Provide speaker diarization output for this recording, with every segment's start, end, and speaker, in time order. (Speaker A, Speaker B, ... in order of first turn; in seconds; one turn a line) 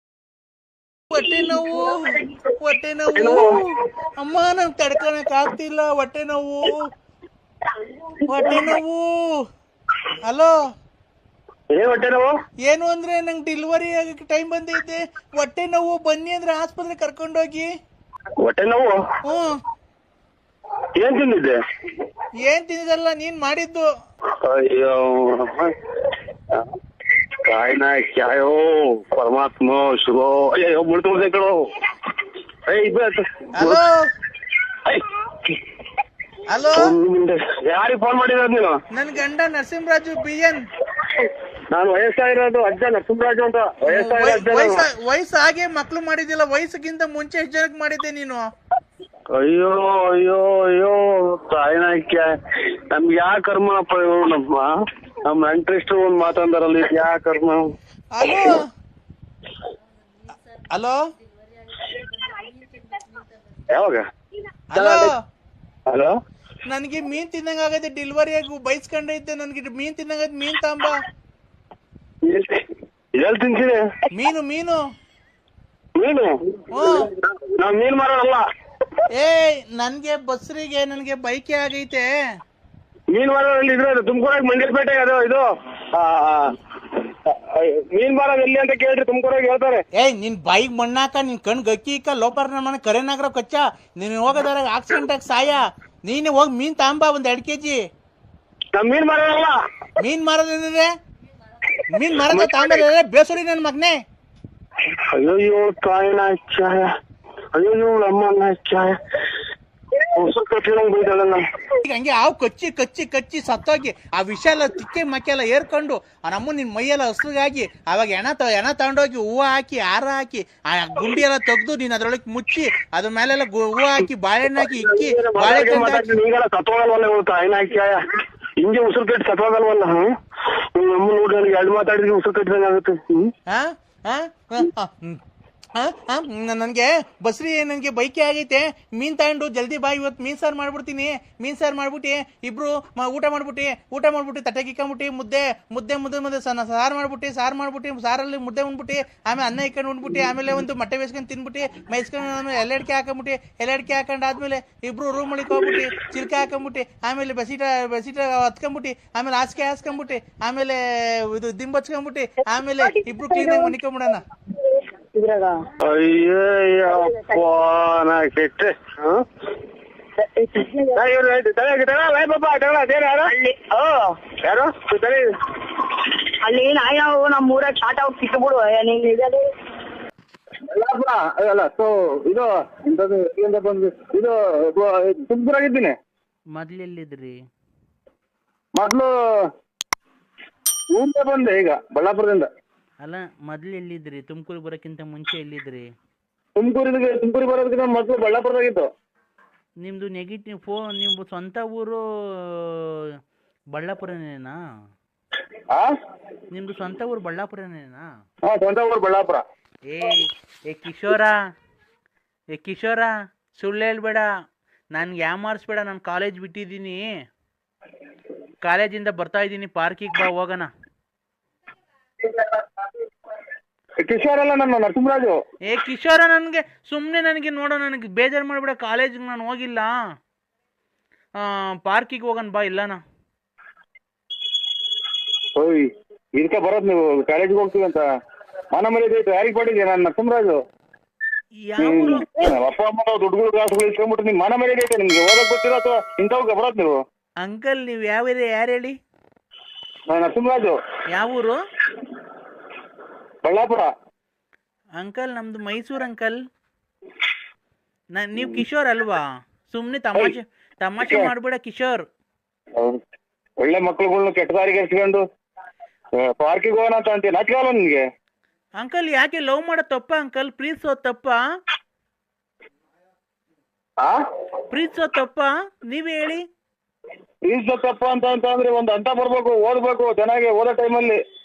Speaker A: 1.1-6.9
Speaker B: 3.1-3.5
Speaker A: 8.3-9.1
Speaker A: 10.2-10.6
Speaker B: 11.7-12.3
Speaker A: 12.6-17.7
Speaker B: 18.4-19.0
Speaker A: 19.2-19.6
Speaker B: 20.9-21.6
Speaker A: 22.4-23.9
Speaker B: 24.4-25.7
Speaker B: 27.4-31.6
Speaker B: 32.6-33.8
Speaker A: 33.5-34.0
Speaker B: 34.9-35.5
Speaker A: 36.5-36.9
Speaker B: 36.7-38.8
Speaker A: 38.9-40.6
Speaker B: 41.1-44.8
Speaker A: 43.9-48.5
Speaker B: 49.3-52.4
Speaker B: 52.9-57.7
Speaker A: 58.1-58.7
Speaker A: 60.7-61.0
Speaker B: 63.7-64.0
Speaker A: 64.7-65.2
Speaker B: 64.8-65.0
Speaker B: 65.9-66.1
Speaker A: 66.7-71.0
Speaker B: 72.2-72.6
Speaker B: 73.2-73.8
Speaker A: 74.1-74.8
Speaker B: 76.0-76.3
Speaker A: 76.7-77.1
Speaker B: 77.5-78.4
Speaker A: 79.1-82.1
Speaker B: 83.1-86.5
Speaker B: 87.2-89.8
Speaker A: 90.0-97.8
Speaker B: 98.7-99.6
Speaker A: 100.0-100.9
Speaker A: 101.9-104.0
Speaker B: 102.3-102.6
Speaker B: 105.0-106.8
Speaker B: 107.5-108.9
Speaker B: 110.1-111.4
Speaker A: 111.8-126.1
Speaker B: 124.8-128.0
Speaker B: 128.6-130.1
Speaker B: 130.7-133.3
Speaker A: 133.5-135.2
Speaker A: 135.7-164.2
Speaker C: 162.8-163.7
Speaker C: 164.5-165.7
Speaker B: 165.8-168.8
Speaker C: 166.9-167.4
Speaker C: 170.2-171.0
Speaker B: 170.9-173.3
Speaker C: 173.2-174.2
Speaker B: 174.4-175.2
Speaker C: 176.4-179.4
Speaker B: 180.7-185.9
Speaker A: 186.5-187.4
Speaker B: 188.8-189.1
Speaker B: 190.9-192.5
Speaker A: 193.0-195.9
Speaker B: 196.6-198.9
Speaker A: 199.8-202.9
Speaker A: 203.7-204.6
Speaker A: 206.5-208.1
Speaker B: 208.4-209.4
Speaker A: 209.9-211.4
Speaker A: 212.5-214.3
Speaker A: 214.9-217.1
Speaker A: 218.6-220.7
Speaker B: 224.0-225.4
Speaker A: 225.7-229.9
Speaker A: 231.4-233.0
Speaker B: 235.6-238.1
Speaker B: 238.7-240.6
Speaker A: 241.7-242.5
Speaker B: 241.8-247.0
Speaker A: 247.4-248.9
Speaker B: 250.1-250.7
Speaker A: 251.1-251.6
Speaker B: 253.4-253.9
Speaker A: 255.0-256.4
Speaker A: 258.1-262.1
Speaker B: 261.0-261.3
Speaker B: 263.6-265.2
Speaker B: 266.2-268.0
Speaker A: 268.8-271.4
Speaker A: 274.7-276.4
Speaker B: 277.4-281.2